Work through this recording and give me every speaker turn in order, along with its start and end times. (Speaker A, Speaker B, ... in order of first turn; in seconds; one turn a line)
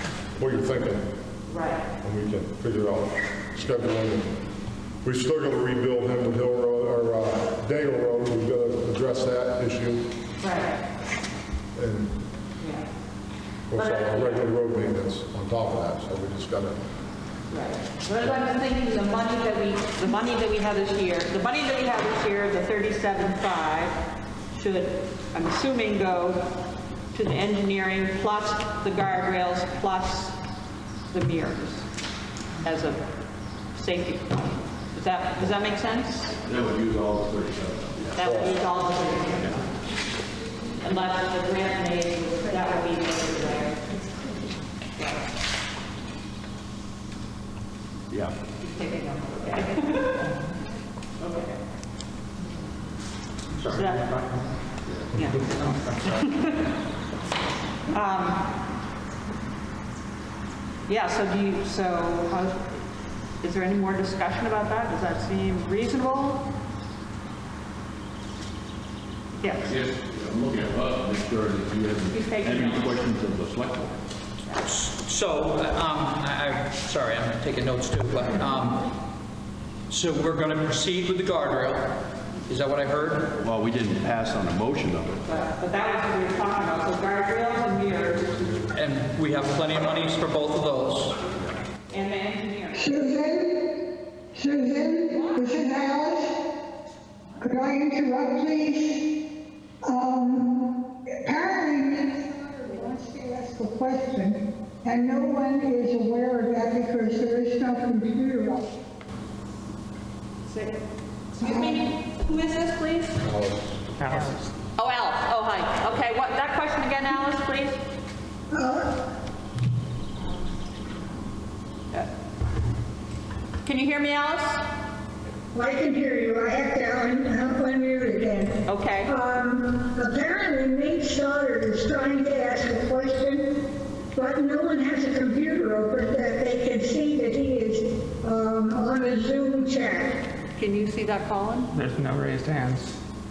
Speaker A: 0.4-1.1
Speaker B: 1.5-1.8
Speaker A: 2.0-4.3
Speaker A: 5.0-10.0
Speaker B: 10.4-10.8
Speaker A: 11.8-12.1
Speaker B: 12.6-12.9
Speaker A: 13.7-16.8
Speaker B: 13.8-14.4
Speaker B: 17.5-24.0
Speaker B: 24.5-26.4
Speaker B: 27.1-30.4
Speaker B: 31.1-31.9
Speaker B: 32.6-33.0
Speaker B: 33.7-36.3
Speaker C: 36.4-38.2
Speaker B: 38.1-39.6
Speaker A: 38.2-38.5
Speaker B: 40.8-43.8
Speaker B: 45.0-45.2
Speaker C: 48.1-48.3
Speaker B: 48.6-50.4
Speaker B: 51.2-51.5
Speaker D: 53.6-54.5
Speaker B: 53.6-54.0
Speaker C: 54.9-55.1
Speaker B: 55.1-56.6
Speaker D: 55.2-56.1
Speaker B: 57.9-58.4
Speaker B: 60.9-62.8
Speaker B: 63.4-66.4
Speaker B: 69.4-69.8
Speaker C: 69.7-74.0
Speaker B: 72.1-73.1
Speaker E: 74.7-78.8
Speaker E: 79.9-81.9
Speaker E: 82.5-83.3
Speaker C: 83.4-85.2
Speaker B: 85.3-88.4
Speaker E: 88.7-91.2
Speaker B: 91.9-92.8
Speaker F: 92.7-93.7
Speaker F: 94.3-96.4
Speaker B: 95.1-95.7
Speaker F: 97.4-99.1
Speaker F: 99.8-100.7
Speaker F: 101.2-108.7
Speaker B: 110.5-110.8
Speaker B: 111.3-113.2
Speaker F: 111.4-111.8
Speaker A: 113.2-113.8
Speaker D: 114.0-114.5
Speaker B: 114.1-117.8
Speaker F: 118.5-118.9
Speaker B: 123.7-124.6
Speaker F: 125.5-133.6
Speaker B: 128.7-129.1
Speaker F: 134.1-140.2
Speaker B: 140.6-141.7
Speaker D: 141.7-143.0